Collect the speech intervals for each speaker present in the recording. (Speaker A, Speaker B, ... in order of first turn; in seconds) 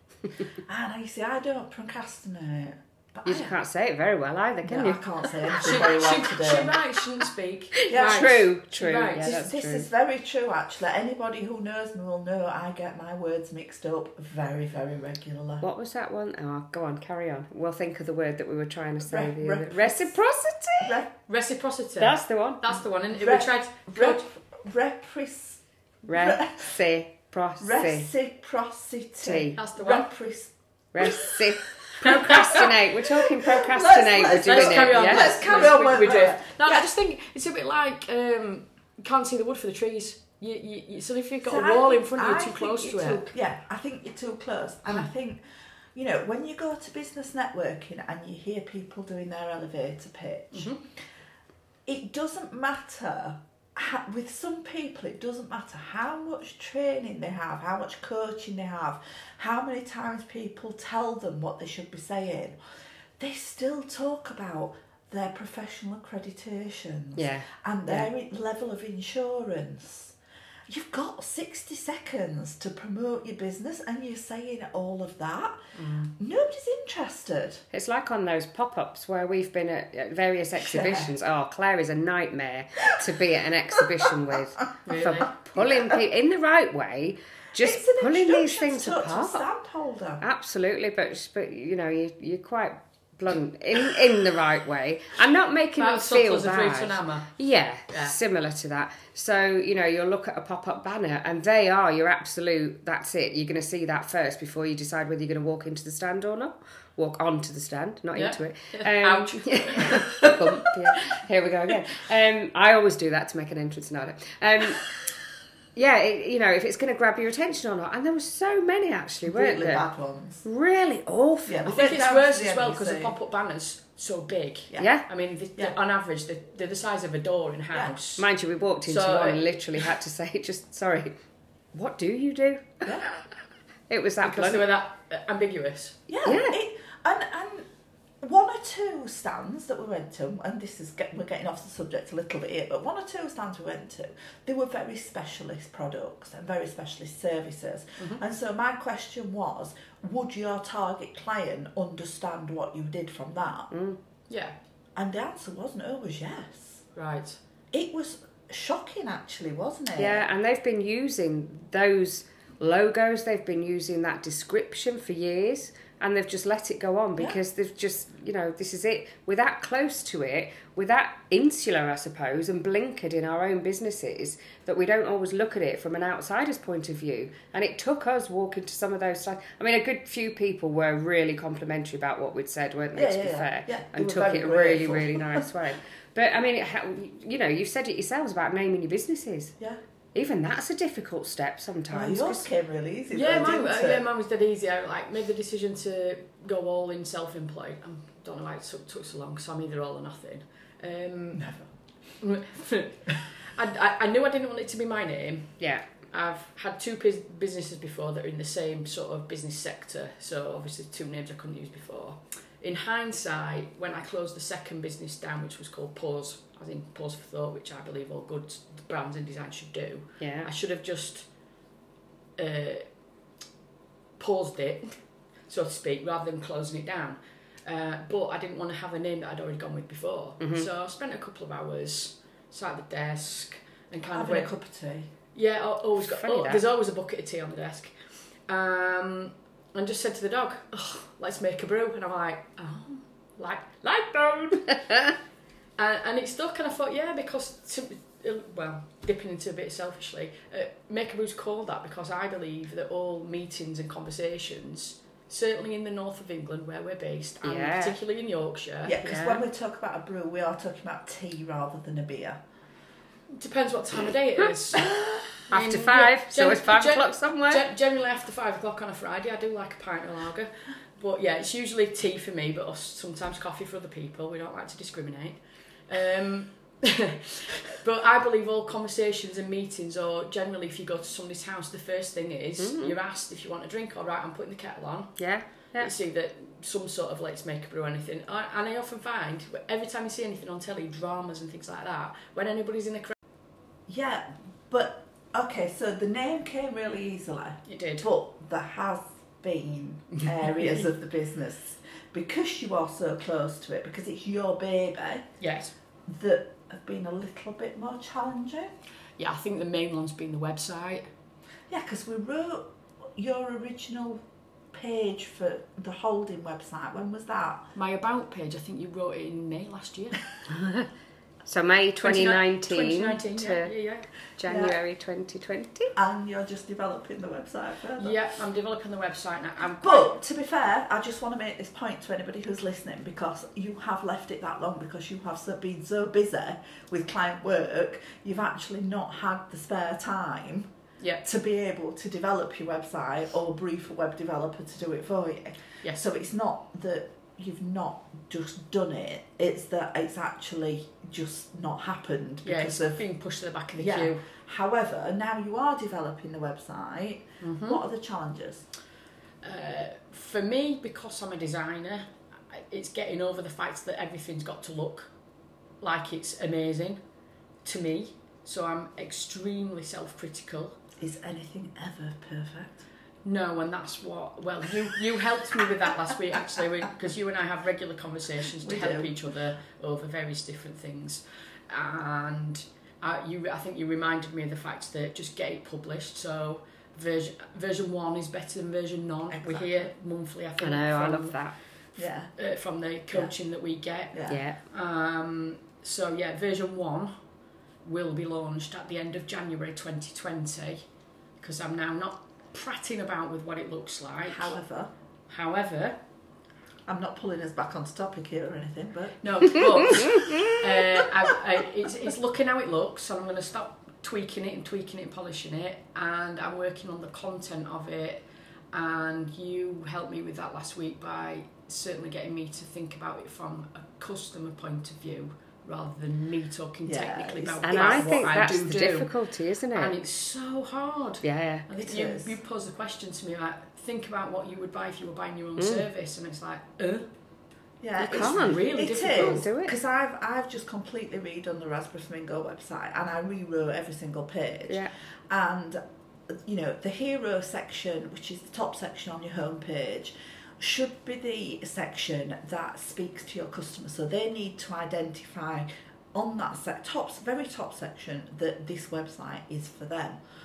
Speaker A: 0.7-3.5, 4.6-6.8, 7.8-8.4, 9.2-15.7, 19.0-20.1, 20.8-21.1, 23.2-26.8, 27.6-31.4, 32.0-32.4, 33.4-36.9, 41.4-45.4, 45.9-50.7, 51.9-62.6, 63.2-70.1, 70.7-77.6, 80.5-81.1, 85.5-86.0, 87.5-90.2, 119.2-120.4, 121.5-123.1, 132.8-133.1, 136.1-137.7, 138.2-153.7, 154.9-156.8, 157.7-160.3, 182.9-185.5, 191.9-194.0, 201.3-201.7, 234.1-235.1, 258.8-262.4, 293.9-305.3, 306.1-308.7, 311.7-317.7, 324.4-324.8, 325.9-328.2, 329.8-340.7, 341.2-353.0, 353.7-358.6, 371.0-372.8, 378.6-379.1, 389.3-389.8, 391.9-392.3, 394.1-394.4, 404.3-404.9, 406.9-410.5, 426.8-428.8, 431.7-432.4, 437.8-460.2
Speaker B: 3.2-5.8, 7.9-9.9, 15.6-20.9, 22.0-22.7, 26.1-28.1, 29.2-29.6, 30.9-35.8, 67.2-68.1, 77.7-89.5, 90.2-115.1, 115.7-119.9, 120.4-121.6, 124.8-125.0, 128.2-131.1, 131.7-133.1, 133.9-134.7, 136.2-136.6, 153.7-154.0, 159.9-189.5, 190.1-192.5, 205.6-205.8, 220.2-220.5, 230.4-230.7, 236.0-236.6, 257.4-258.0, 259.0-259.4, 265.5-267.7, 282.6-283.0, 285.2-285.9, 320.5-320.9, 321.4-323.7, 324.4-325.9, 390.6-391.6, 394.3-394.6, 427.6-429.9, 431.2-431.6, 435.6-435.9, 438.0-439.8, 444.7-444.9
Speaker C: 5.6-9.4, 21.3-24.2, 29.5-30.1, 32.0-32.7, 34.3-43.2, 50.5-50.8, 75.7-76.1, 84.8-85.4, 95.8-97.3, 97.9-98.2, 108.1-111.2, 121.7-128.3, 128.8-129.9, 134.2-136.0, 154.3-154.6, 156.9-157.4, 193.1-201.5, 202.2-205.6, 206.1-221.3, 222.4-222.9, 224.2-234.5, 235.3-237.9, 238.5-244.9, 245.8-259.0, 263.3-293.1, 297.7-298.1, 305.4-305.7, 309.2-311.1, 317.7-320.2, 322.0-324.1, 328.0-330.1, 352.4-354.2, 357.4-357.8, 359.4-365.1, 365.8-367.0, 367.6-370.8, 373.2-391.5, 392.3-397.1, 397.8-400.8, 401.4-404.5, 405.3-406.0, 409.2-429.1, 429.7-437.1, 438.1-439.4